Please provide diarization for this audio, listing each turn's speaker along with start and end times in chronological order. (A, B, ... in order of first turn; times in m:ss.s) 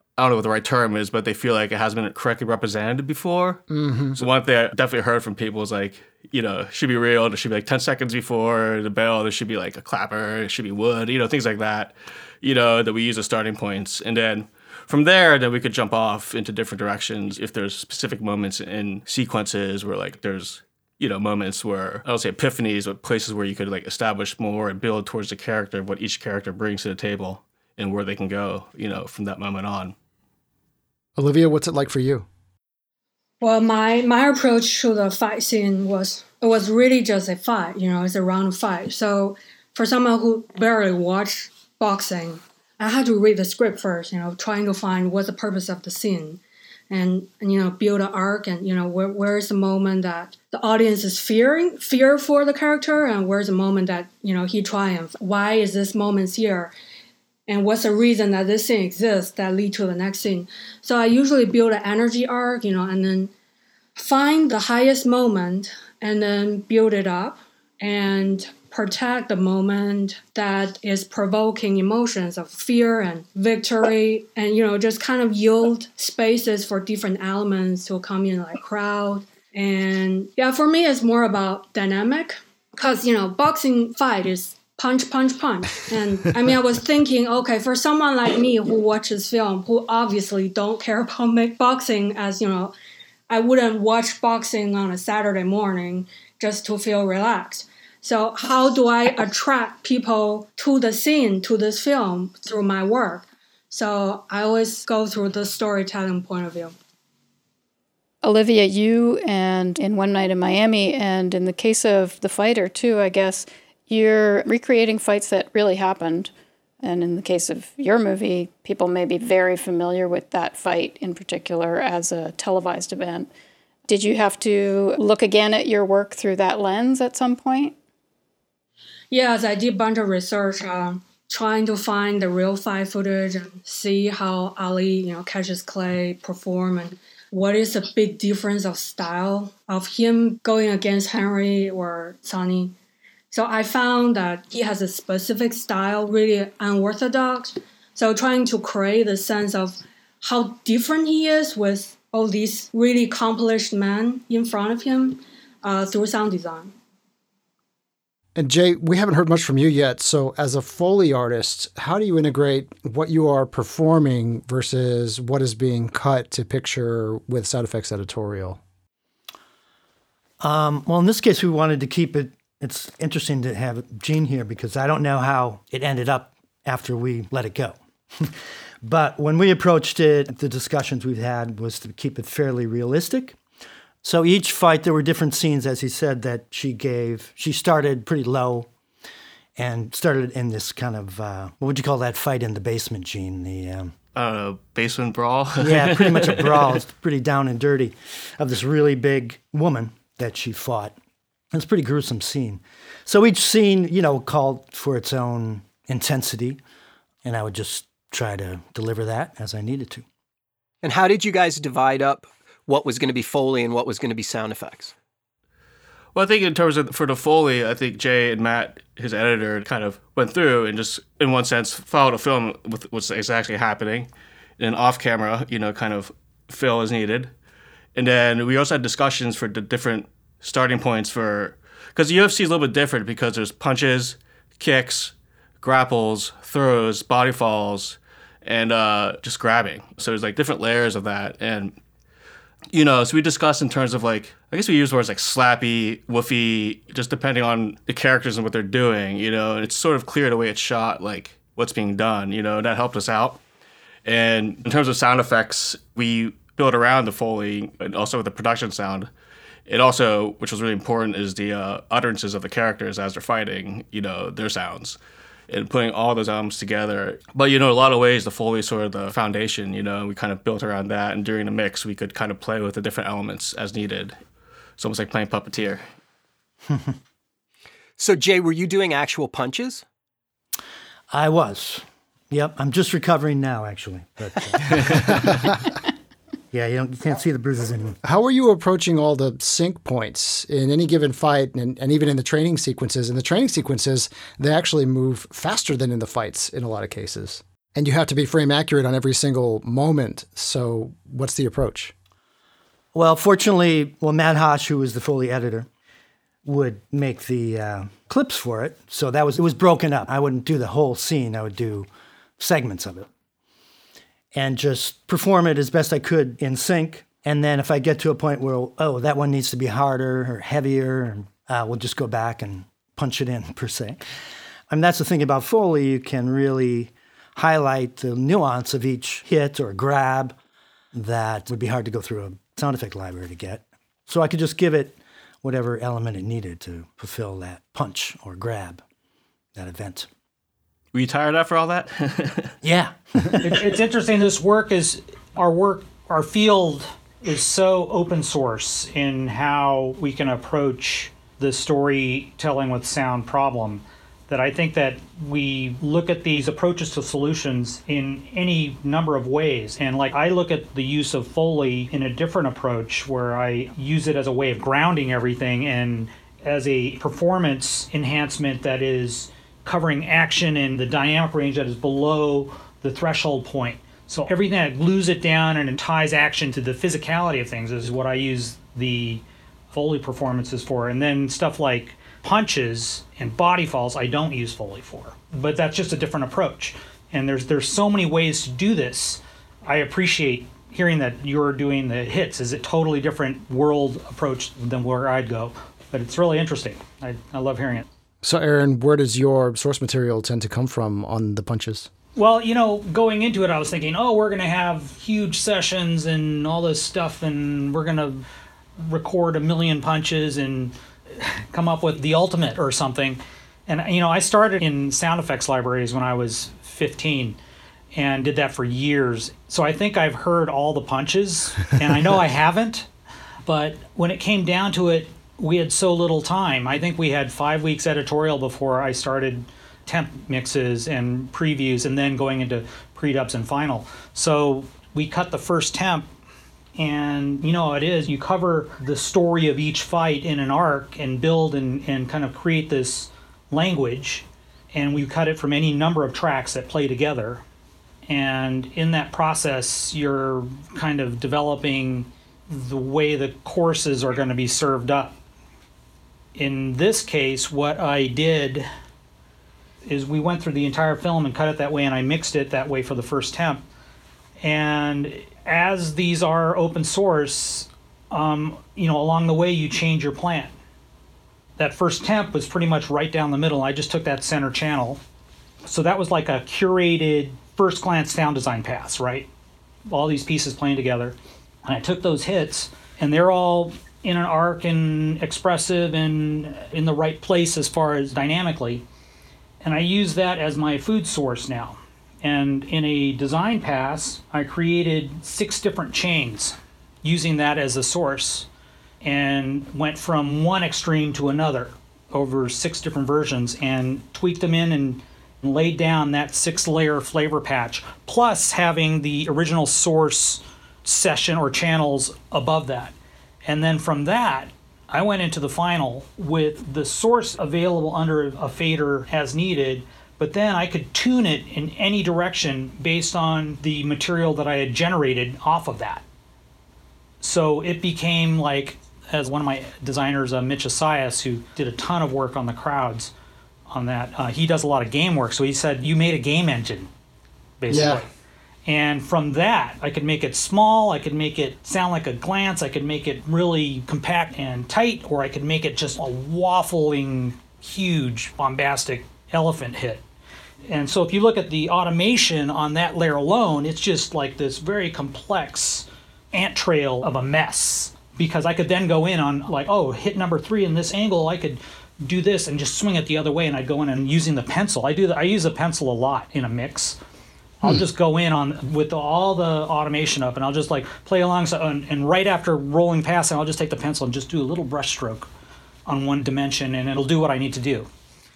0:00.2-0:29.9 A
0:03.7-0:04.2 B
0:31.2-0:32.2 B
0:33.4-0:56.7 C
0:57.5-1:03.3 C
1:04.0-1:32.7 C
1:33.3-1:46.7 C
1:48.2-1:56.3 D
1:56.8-2:03.3 D
2:03.9-2:07.8 D
2:09.1-2:22.7 C
2:23.3-2:36.7 C
2:38.4-2:48.6 B
2:50.4-3:03.4 E
3:04.0-3:08.7 E
3:09.6-3:13.9 E
3:14.1-3:16.8 A
3:15.6-3:20.9 E
3:21.5-3:26.6 E
3:27.2-3:30.0 E
3:30.8-3:34.9 F
3:36.1-3:47.3 A
3:47.9-4:01.8 A
4:02.7-4:13.4 A
4:14.0-4:19.1 A
4:19.7-4:25.0 A
4:25.5-4:34.2 A
4:34.8-4:35.8 A
4:36.7-4:37.0 E
4:38.0-4:39.8 F
4:41.1-4:45.5 E
4:46.5-4:48.0 E
4:48.0-5:01.9 B
5:02.9-5:05.7 E
5:06.4-5:11.9 E
5:12.4-5:13.1 E
5:14.3-5:24.0 E
5:24.7-5:30.3 E
5:30.9-5:38.8 E
5:39.6-5:40.1 E
5:40.9-5:42.5 A
5:42.6-5:43.5 E
5:43.4-6:37.9 G
6:38.2-6:41.9 B
6:42.2-6:48.2 G
6:48.8-6:57.4 G
6:57.9-7:02.9 G
7:03.4-7:16.1 G
7:16.8-7:27.4 G
7:28.1-7:35.1 G
7:36.4-7:38.7 G
7:39.8-7:43.6 G
7:44.4-7:50.5 G
7:51.6-7:55.0 G
7:55.6-7:59.3 G
7:59.9-8:08.8 G
8:09.6-8:18.5 G
8:19.0-8:46.0 G
8:47.2-8:53.1 G
8:53.7-8:56.9 G
8:57.6-8:58.1 G
8:57.7-8:58.0 B
8:58.6-9:10.0 G
9:10.7-9:27.0 G
9:27.6-9:35.3 G
9:35.8-9:37.9 G